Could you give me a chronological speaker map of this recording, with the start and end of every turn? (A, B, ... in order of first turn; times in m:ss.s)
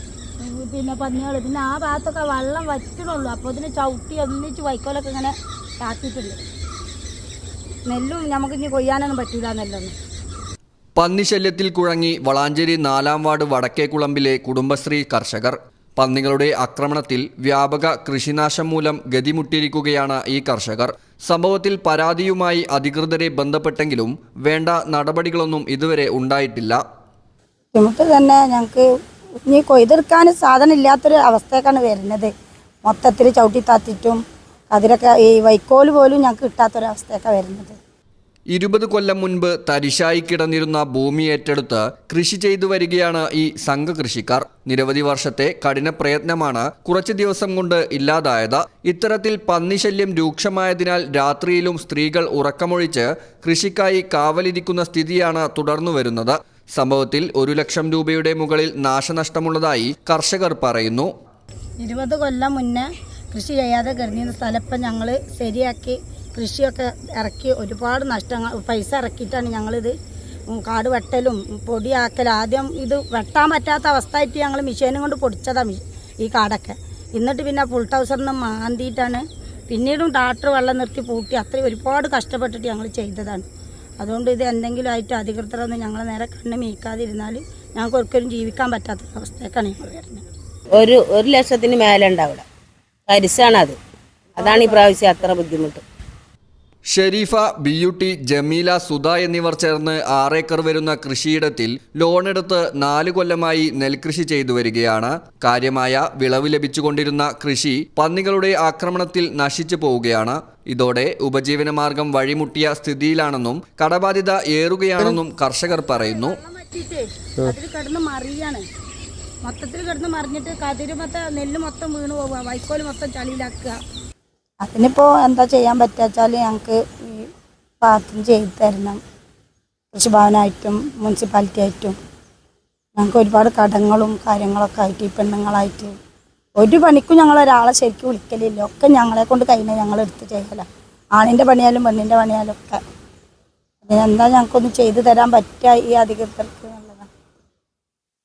0:00.4-0:06.4 A
0:07.9-0:09.9 A
0:11.0-0:26.8 B
0:27.7-0:28.9 A
0:29.5-0:32.3 A
0:32.8-0:34.2 A
0:34.7-0:37.8 A
0:38.5-1:01.1 B
1:01.8-1:09.9 A
1:10.5-1:23.5 A
1:24.0-1:30.2 A
1:30.7-1:32.4 C
1:33.1-1:33.8 C
1:34.4-1:35.8 C
1:36.9-1:56.4 B
1:55.9-1:58.6 A
1:59.4-2:03.8 A
2:04.6-2:07.3 A
2:07.8-2:09.0 A
2:09.9-2:12.0 A
2:13.0-2:16.0 A
2:16.6-2:22.8 A
2:23.8-2:27.1 A